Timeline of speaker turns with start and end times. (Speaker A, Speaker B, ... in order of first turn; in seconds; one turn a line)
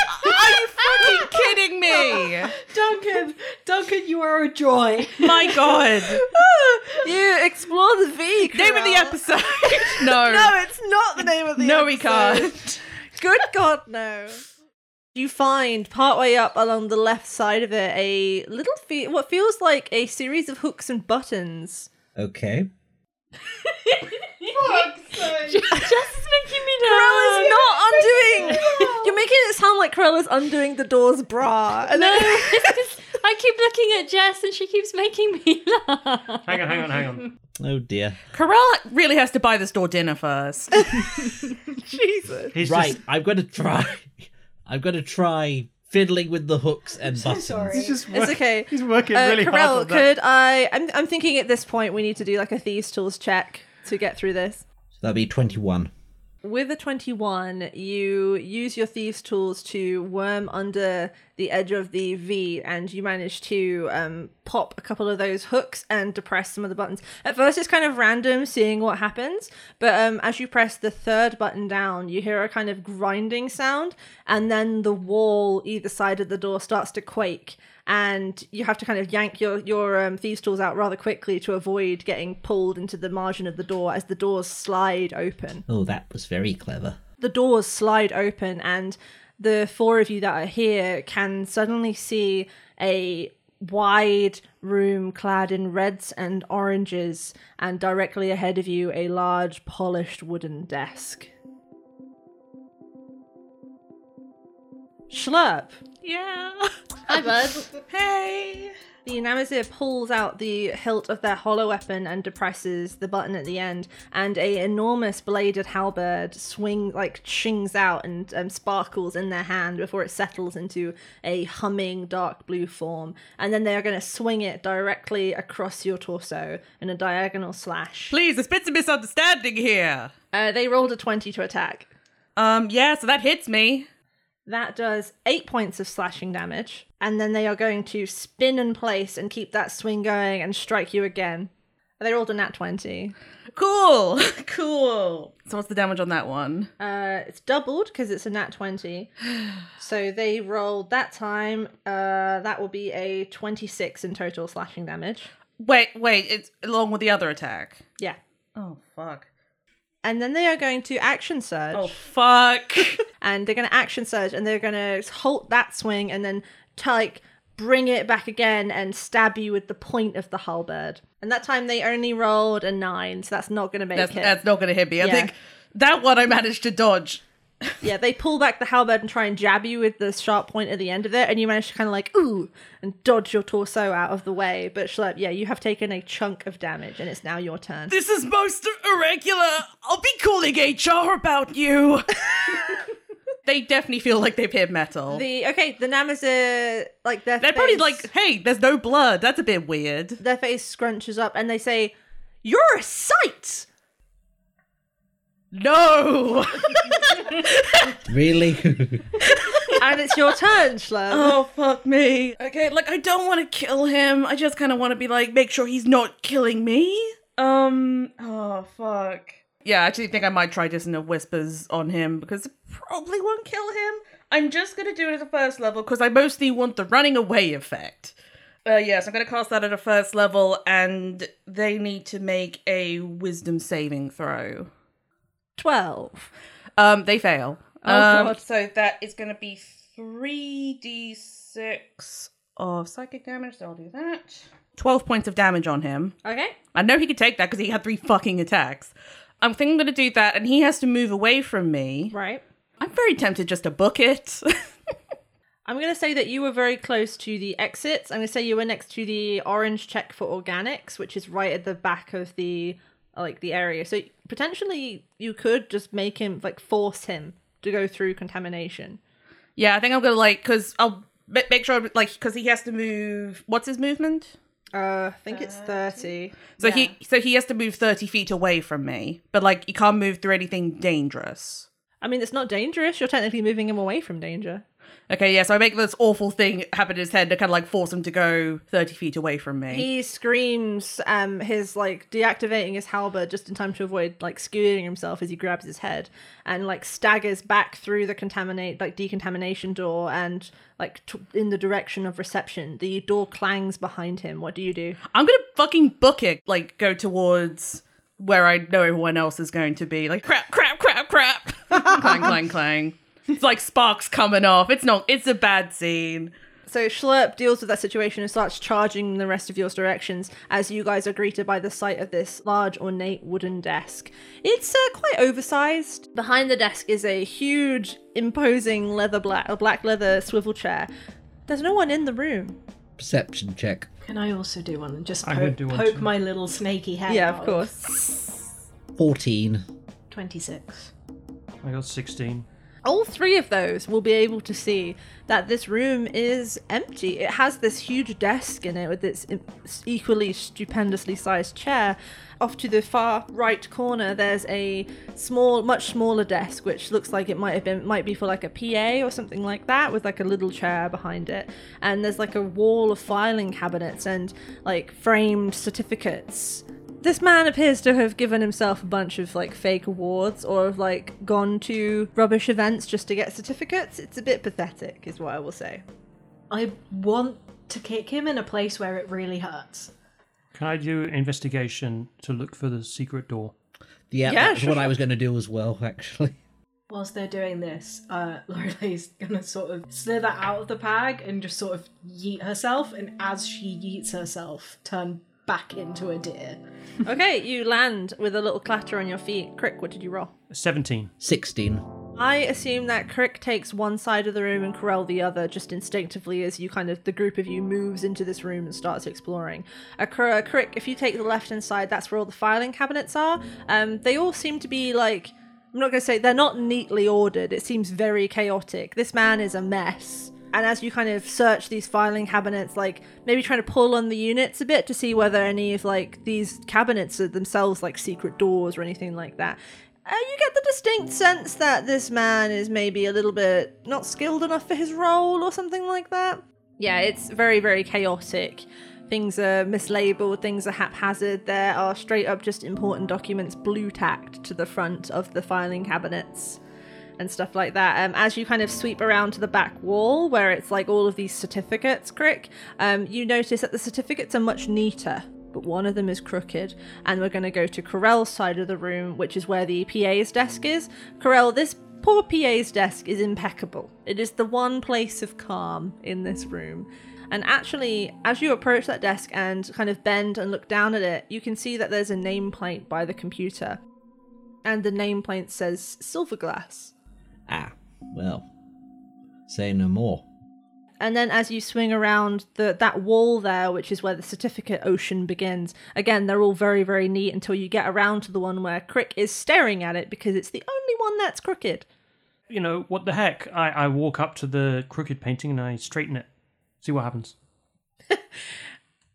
Speaker A: 0.2-2.5
Speaker B: 1.0-1.3
Speaker B: 2.0-7.0
Speaker A: 5.2-6.2
Speaker C: 6.9-9.2
Speaker A: 8.5-10.6
Speaker C: 9.8-12.5
Speaker A: 11.6-12.8
Speaker C: 13.2-14.4
Speaker C: 15.2-21.9
Speaker D: 22.2-22.7
Speaker E: 23.7-29.0
Speaker B: 24.5-25.8
Speaker C: 26.8-32.8
Speaker B: 28.4-29.0
Speaker E: 31.9-37.2
Speaker F: 36.5-37.3
Speaker D: 37.6-38.2
Speaker A: 38.3-41.0
Speaker C: 41.8-42.5
Speaker F: 42.5-43.0
Speaker D: 42.6-47.9
Speaker B: 47.0-48.2
Speaker F: 47.7-50.1
Speaker C: 48.1-54.6
Speaker D: 55.0-55.9
Speaker C: 56.4-85.7
Speaker D: 85.7-87.0
Speaker C: 87.2-101.3
Speaker C: 105.1-105.8
Speaker A: 106.0-108.7
Speaker C: 107.1-107.7
Speaker C: 109.0-128.2
Speaker A: 128.1-130.1
Speaker C: 130.3-131.9
Speaker A: 132.4-133.9
Speaker C: 134.5-143.2
Speaker A: 143.5-146.7
Speaker C: 146.8-149.1
Speaker C: 149.8-155.3
Speaker A: 155.6-157.8
Speaker A: 158.6-159.3
Speaker C: 160.0-161.9
Speaker A: 161.7-163.0
Speaker C: 163.2-174.4
Speaker A: 173.9-177.7
Speaker C: 175.0-175.3
Speaker C: 177.8-187.9
Speaker A: 187.9-192.9
Speaker A: 193.5-195.2
Speaker C: 195.1-198.1
Speaker A: 197.4-200.2
Speaker C: 200.2-203.7
Speaker A: 205.5-208.0
Speaker D: 208.1-209.2
Speaker A: 209.2-209.8
Speaker C: 209.8-211.4
Speaker A: 211.1-234.7
Speaker C: 235.6-236.3
Speaker A: 236.8-246.2
Speaker C: 237.8-238.4
Speaker C: 246.2-246.6
Speaker A: 246.7-252.1
Speaker C: 252.1-252.4
Speaker A: 252.8-254.7
Speaker C: 255.7-269.0
Speaker A: 269.6-274.3
Speaker C: 274.7-276.9
Speaker A: 275.3-281.7
Speaker C: 282.0-284.6
Speaker A: 285.1-289.9
Speaker C: 289.7-305.0
Speaker A: 305.1-316.3
Speaker C: 316.7-330.9
Speaker C: 331.5-332.6
Speaker D: 333.0-333.9
Speaker B: 334.1-337.7
Speaker F: 335.2-336.1
Speaker C: 337.1-338.4
Speaker D: 338.9-339.6
Speaker B: 340.1-340.9
Speaker F: 341.6-342.5
Speaker C: 342.8-375.8
Speaker B: 376.5-379.9
Speaker F: 380.5-383.5
Speaker D: 384.1-386.4
Speaker C: 384.3-384.9
Speaker B: 386.9-396.6
Speaker C: 397.0-400.3
Speaker F: 400.5-401.1
Speaker D: 401.2-401.8
Speaker C: 402.2-446.6
Speaker C: 447.2-473.8
Speaker C: 474.6-476.9
Speaker D: 477.5-478.5
Speaker D: 479.5-480.2
Speaker C: 481.0-491.9
Speaker F: 492.5-496.3
Speaker F: 496.8-497.4